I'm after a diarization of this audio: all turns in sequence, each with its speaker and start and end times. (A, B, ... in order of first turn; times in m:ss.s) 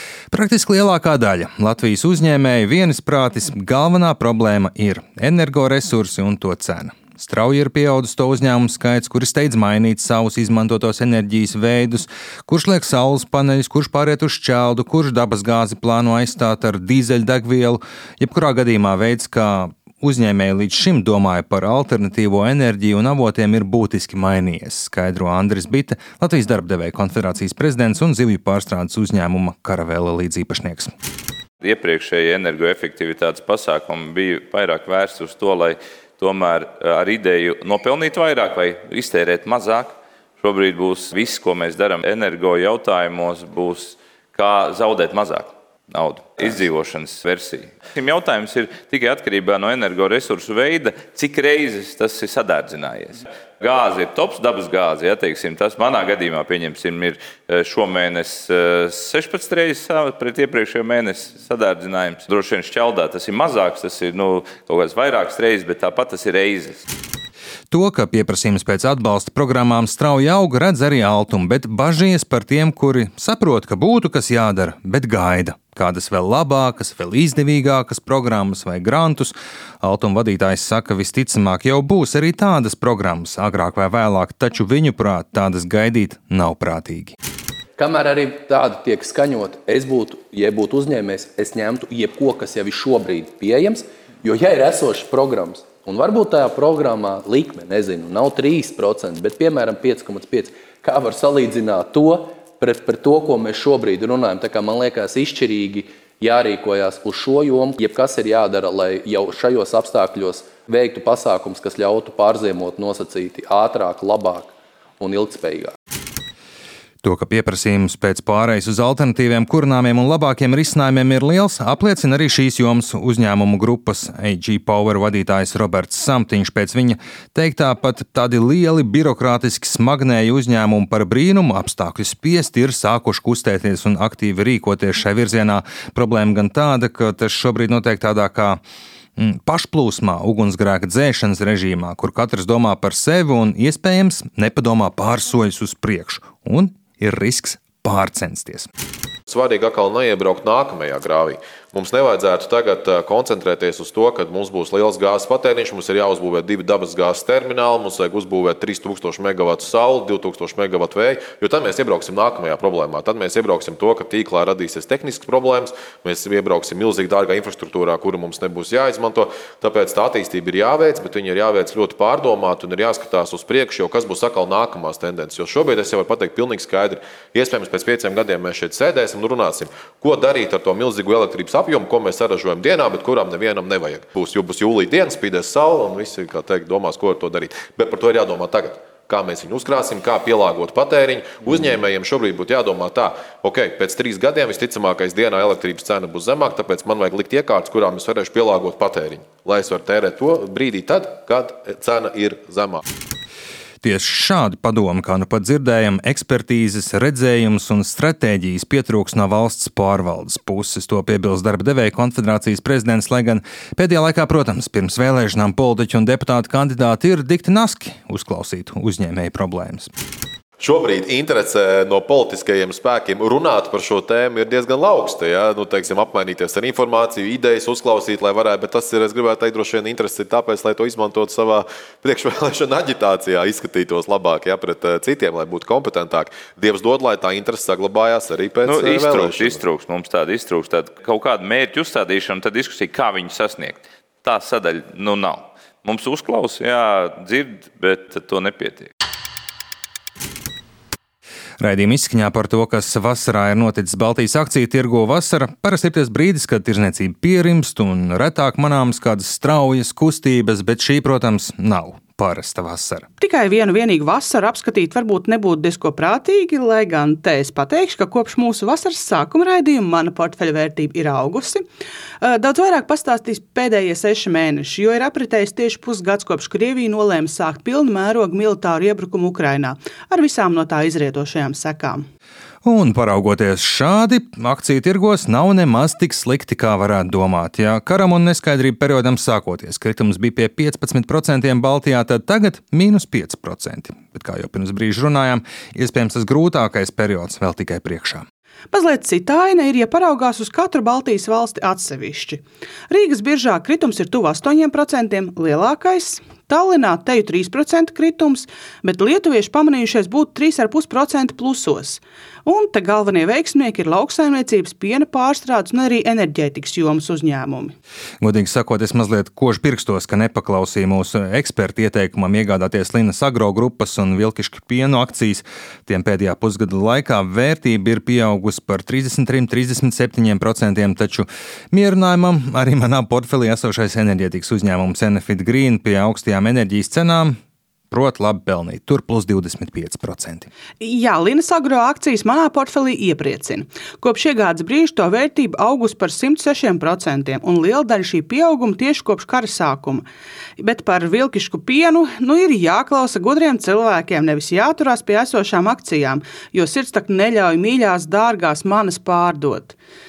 0:00.3-0:30.9 A
0:31.6-1:06.8 B
1:07.7-1:27.1 A
1:27.8-1:55.7 C
1:57.0-2:18.6 A
2:19.2-2:28.7 A
2:29.3-2:29.6 D
2:30.2-2:33.3 D
2:33.8-3:16.1 D
3:16.9-3:19.9 D
3:20.6-3:21.2 D
3:23.8-3:39.9 A
3:42.1-3:42.7 D
3:43.6-3:46.8 D
3:47.3-3:52.1 D
3:53.6-3:54.1 D
3:56.1-3:56.6 D
3:58.5-3:59.4 D
3:58.6-4:08.9 B
4:11.6-4:23.0 A
4:23.2-4:31.6 E
4:32.2-4:42.0 E
4:42.6-4:58.2 A
4:58.7-5:17.7 E
5:18.2-5:37.4 A
5:37.9-5:40.5 A
5:40.8-5:50.0 E
5:50.6-5:59.8 E